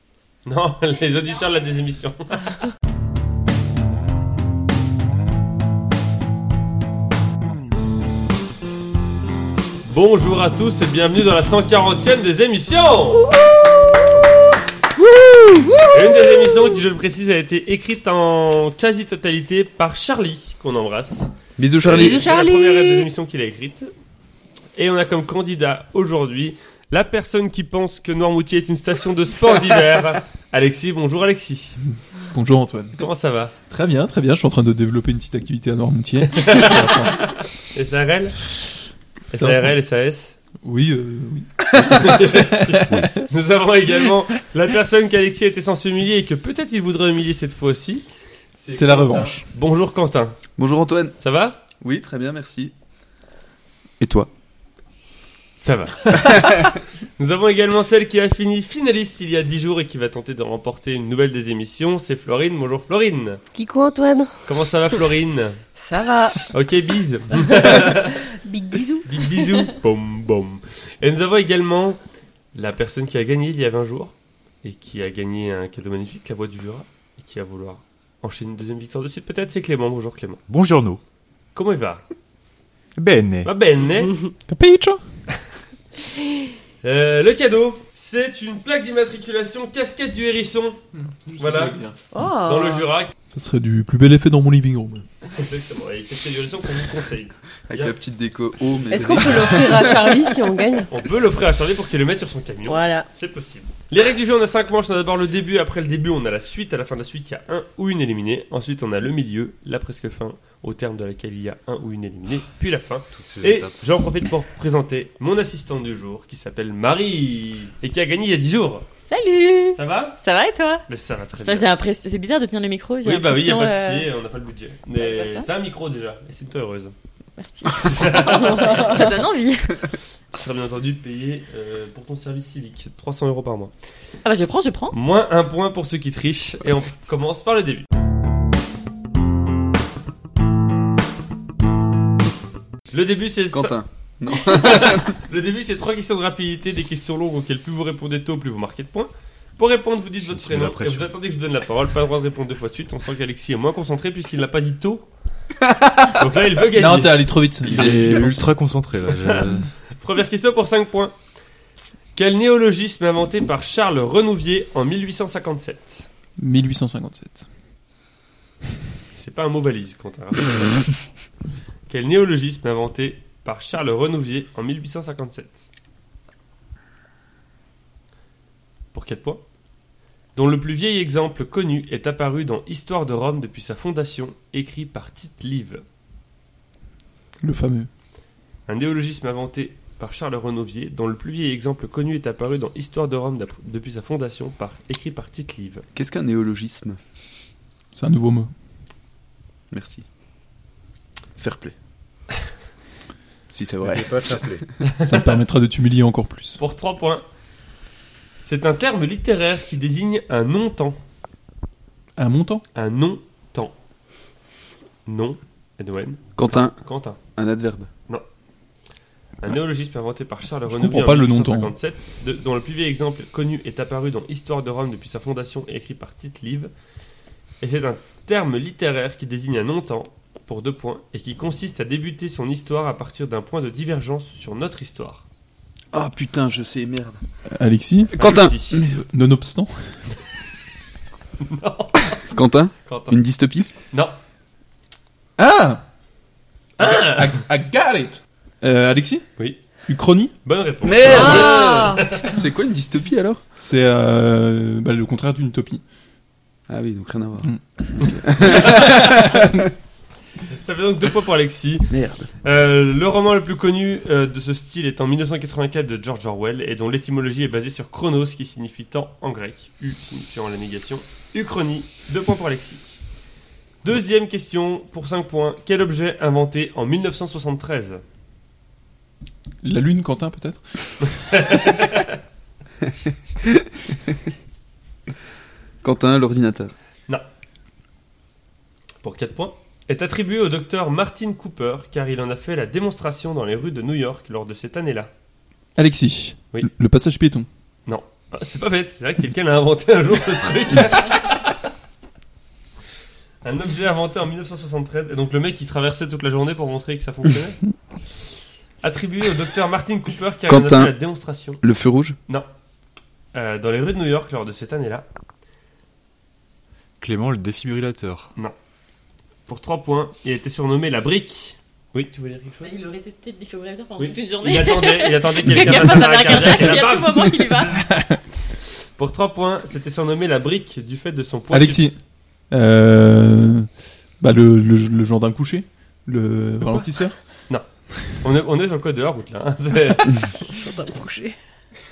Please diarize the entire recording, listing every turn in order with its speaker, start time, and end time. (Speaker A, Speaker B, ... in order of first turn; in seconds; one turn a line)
Speaker A: 0.4-2.5
Speaker A: 9.8-13.3
Speaker B: 15.0-16.7
Speaker A: 15.9-21.3
Speaker C: 21.6-22.3
Speaker A: 21.8-23.9
Speaker B: 21.9-23.1
Speaker A: 24.8-31.8
Speaker D: 32.3-33.0
Speaker A: 33.0-33.5
Speaker D: 33.7-37.3
Speaker A: 36.4-38.4
Speaker A: 39.3-40.4
Speaker D: 39.4-39.7
Speaker D: 40.6-43.2
Speaker A: 41.7-50.4
Speaker E: 42.9-43.2
Speaker D: 48.7-49.5
Speaker C: 50.6-51.1
Speaker A: 51.2-51.6
Speaker C: 51.8-52.7
Speaker C: 54.0-54.3
Speaker A: 55.6-63.4
Speaker B: 63.5-64.5
Speaker A: 64.5-65.6
Speaker B: 65.8-66.5
Speaker A: 66.5-68.2
Speaker B: 67.3-69.7
Speaker A: 69.0-72.0
Speaker A: 72.5-80.4
Speaker E: 80.5-81.0
Speaker A: 81.5-82.0
Speaker E: 83.0-83.5
Speaker A: 83.4-84.1
Speaker D: 84.5-85.0
Speaker A: 86.8-90.8
Speaker D: 90.9-92.0
Speaker A: 91.4-91.8
Speaker B: 92.1-92.9
Speaker A: 92.4-93.1
Speaker D: 93.3-95.0
Speaker A: 95.3-97.9
Speaker C: 97.7-100.3
Speaker B: 98.9-100.9
Speaker A: 100.9-118.9
Speaker B: 102.7-103.1
Speaker E: 113.1-113.8
Speaker F: 119.1-120.8
Speaker A: 119.7-120.2
Speaker A: 120.9-121.7
Speaker F: 121.4-124.1
Speaker A: 123.0-126.9
Speaker F: 125.0-125.5
Speaker F: 127.4-129.9
Speaker A: 127.7-129.1
Speaker B: 128.6-129.1
Speaker A: 130.3-133.7
Speaker F: 134.2-134.9
Speaker A: 134.9-137.9
Speaker A: 142.9-143.8
Speaker C: 143.5-145.2
Speaker A: 144.3-155.1
Speaker E: 150.3-151.1
Speaker A: 156.1-157.3
Speaker D: 156.7-158.4
Speaker E: 157.6-159.7
Speaker C: 157.7-158.4
Speaker A: 159.1-161.1
Speaker A: 162.1-166.1
Speaker D: 166.4-167.4
Speaker A: 169.1-171.0
Speaker A: 171.9-175.7
Speaker A: 178.9-179.4
Speaker A: 180.3-185.8
Speaker D: 187.4-187.9
Speaker A: 188.7-195.8
Speaker C: 195.9-197.0
Speaker D: 197.9-198.5
Speaker C: 199.7-200.0
Speaker C: 201.4-201.7
Speaker C: 203.5-204.6
Speaker E: 203.7-204.7
Speaker A: 204.8-205.3
Speaker D: 204.8-206.6
Speaker A: 206.6-207.2
Speaker A: 208.4-211.0
Speaker D: 212.2-212.6
Speaker A: 212.7-213.7
Speaker A: 215.1-217.2
Speaker C: 216.3-217.9
Speaker A: 219.4-226.7
Speaker D: 220.7-221.7
Speaker A: 227.6-235.2
Speaker C: 235.9-237.2
Speaker D: 237.5-240.0
Speaker A: 238.1-238.8
Speaker C: 238.2-238.9
Speaker A: 241.4-242.2
Speaker C: 242.2-243.7
Speaker A: 242.8-243.2
Speaker A: 243.9-244.1
Speaker D: 245.4-245.8
Speaker A: 246.8-247.4
Speaker D: 246.8-249.3
Speaker D: 249.9-250.3
Speaker A: 250.4-252.3
Speaker C: 250.8-253.4
Speaker B: 251.1-252.2
Speaker D: 253.6-255.8
Speaker C: 256.7-259.7
Speaker A: 258.4-259.4
Speaker D: 258.4-259.6
Speaker A: 260.5-273.0
Speaker C: 261.9-262.3
Speaker A: 273.8-278.0
Speaker D: 279.6-281.6
Speaker A: 281.2-282.1
Speaker C: 283.4-284.1
Speaker C: 285.8-286.7
Speaker A: 289.0-295.1
Speaker D: 295.8-297.5
Speaker A: 297.9-301.6
Speaker A: 303.4-307.6
Speaker A: 308.8-311.6
Speaker C: 310.5-311.0
Speaker C: 311.6-312.2
Speaker A: 313.3-315.1
Speaker E: 317.0-318.3
Speaker A: 319.5-322.7
Speaker F: 322.6-327.8
Speaker A: 324.0-327.4
Speaker D: 327.7-328.2
Speaker A: 329.0-331.8
Speaker D: 331.5-331.9
Speaker D: 332.5-333.7
Speaker D: 334.2-337.2
Speaker A: 337.5-340.3
Speaker B: 340.5-341.4